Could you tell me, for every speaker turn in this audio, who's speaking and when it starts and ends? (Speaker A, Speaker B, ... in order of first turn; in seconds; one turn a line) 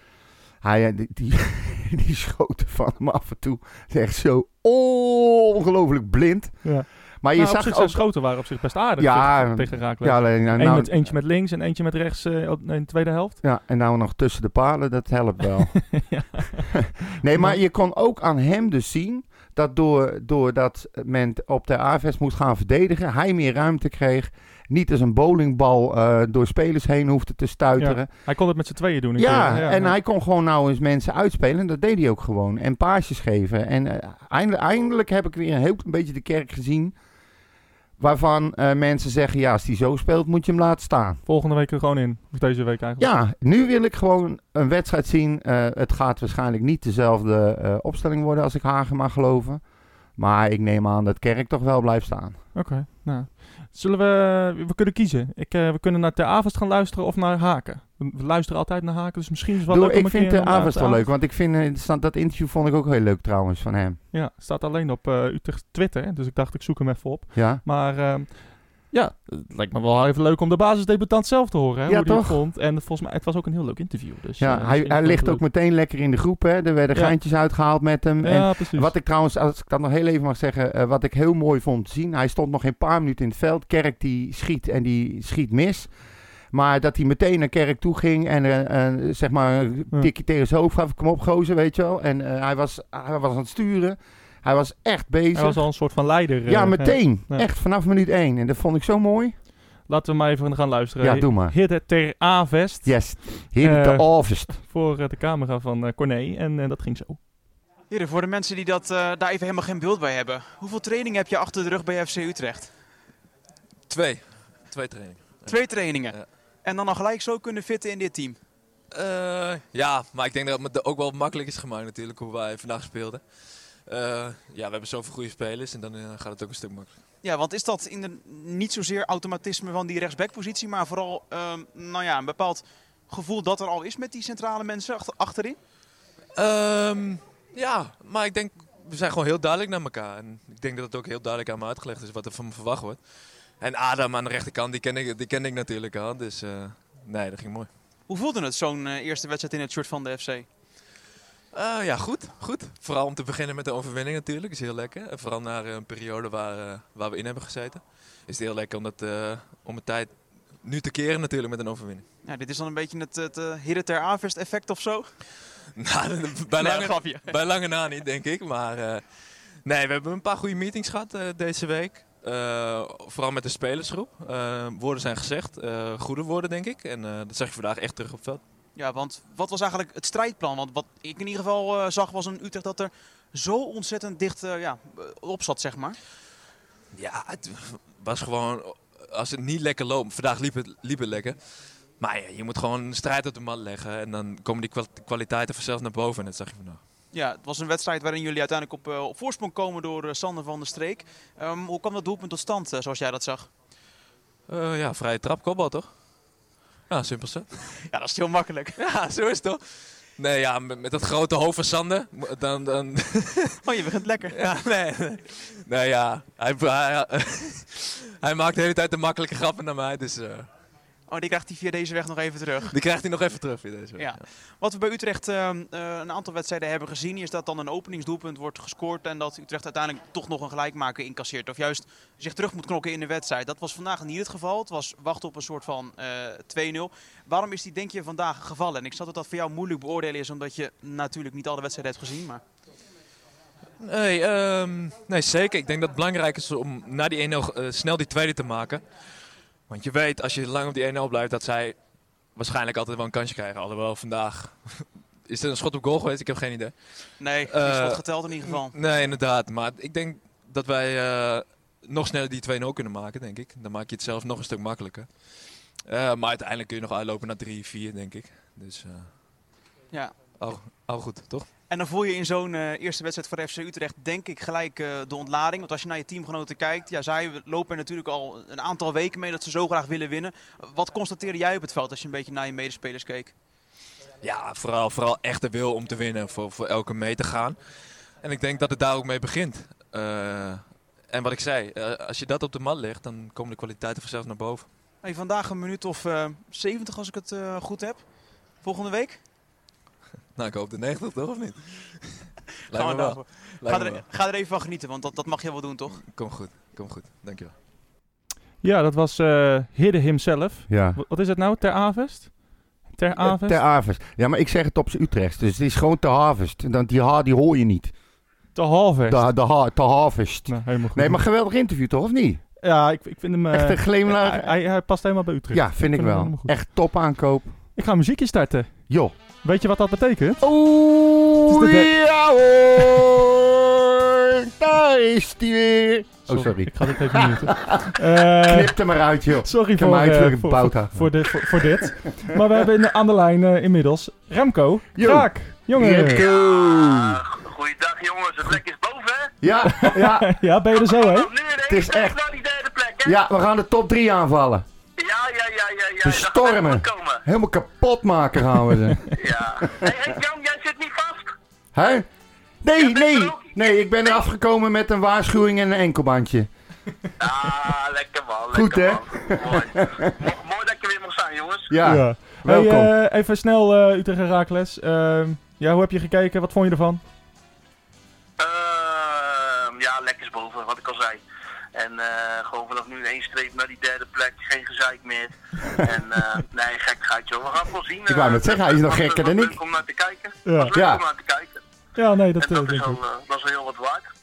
Speaker A: 0.6-8.2
Speaker B: 6.6-13.4
Speaker A: 9.0-11.1
Speaker A: 13.4-28.1
Speaker B: 15.9-16.8
Speaker B: 17.3-17.6
Speaker B: 27.8-29.9
Speaker A: 29.2-37.0
Speaker A: 38.0-41.2
Speaker B: 41.3-43.1
Speaker A: 43.0-49.6
Speaker A: 50.2-52.4
Speaker B: 52.5-61.1
Speaker A: 59.7-64.0
Speaker B: 64.1-75.4
Speaker A: 67.3-67.6
Speaker A: 71.9-72.4
Speaker A: 74.4-85.9
Speaker B: 78.2-78.9
Speaker A: 86.5-95.7
Speaker B: 95.3-97.5
Speaker A: 96.5-99.3
Speaker B: 99.9-107.2
Speaker A: 101.0-101.5
Speaker A: 102.8-104.6
Speaker C: 107.9-112.7
Speaker D: 113.9-116.2
Speaker C: 115.5-118.4
Speaker D: 118.9-123.2
Speaker D: 123.9-126.9
Speaker C: 127.2-135.6
Speaker D: 136.3-143.0
Speaker D: 143.6-147.7
Speaker C: 148.1-150.5
Speaker D: 151.5-162.1
Speaker C: 162.2-165.1
Speaker D: 165.8-169.0
Speaker C: 166.6-167.3
Speaker D: 169.7-178.4
Speaker C: 178.8-186.0
Speaker D: 186.9-191.4
Speaker D: 192.0-196.8
Speaker C: 197.1-203.5
Speaker D: 204.5-205.9
Speaker D: 206.9-207.9
Speaker C: 207.9-208.8
Speaker D: 208.8-209.6
Speaker D: 210.2-213.6
Speaker C: 213.6-214.4
Speaker D: 214.3-220.5
Speaker C: 221.1-222.7
Speaker D: 222.7-224.2
Speaker C: 224.0-242.4
Speaker D: 243.8-248.8
Speaker D: 249.7-251.8
Speaker D: 252.4-256.7
Speaker C: 257.2-258.8
Speaker D: 257.5-265.3
Speaker D: 265.9-269.1
Speaker D: 270.4-271.5
Speaker C: 271.7-283.3
Speaker D: 284.2-287.6
Speaker D: 288.2-294.7
Speaker C: 295.0-298.0
Speaker C: 298.6-299.2
Speaker D: 300.4-304.0
Speaker C: 302.7-306.0
Speaker D: 306.0-307.5
Speaker B: 308.6-313.6
Speaker A: 310.7-311.0
Speaker A: 313.2-317.9
Speaker B: 318.6-319.2
Speaker A: 319.1-322.4
Speaker B: 320.5-321.2
Speaker B: 322.6-326.6
Speaker A: 323.5-324.5
Speaker A: 325.5-327.5
Speaker B: 327.8-328.9
Speaker A: 328.9-329.1
Speaker B: 329.4-330.5
Speaker A: 330.4-341.6
Speaker B: 331.4-331.9
Speaker B: 336.3-338.8
Speaker B: 339.4-346.2
Speaker A: 345.0-347.2
Speaker E: 346.0-349.4
Speaker A: 349.4-350.3
Speaker B: 349.6-351.3
Speaker E: 350.7-353.2
Speaker A: 351.7-352.2
Speaker A: 353.1-354.7
Speaker E: 355.0-357.2
Speaker A: 356.0-359.9
Speaker E: 359.1-361.3
Speaker A: 361.7-362.1
Speaker A: 362.6-366.5
Speaker E: 362.8-364.2
Speaker E: 367.2-371.7
Speaker A: 368.5-370.2
Speaker A: 371.7-372.9
Speaker B: 371.8-377.0
Speaker E: 378.4-381.2
Speaker E: 381.8-391.6
Speaker A: 388.1-389.6
Speaker B: 390.5-390.8
Speaker A: 390.7-391.0
Speaker B: 392.0-393.0
Speaker E: 392.4-394.1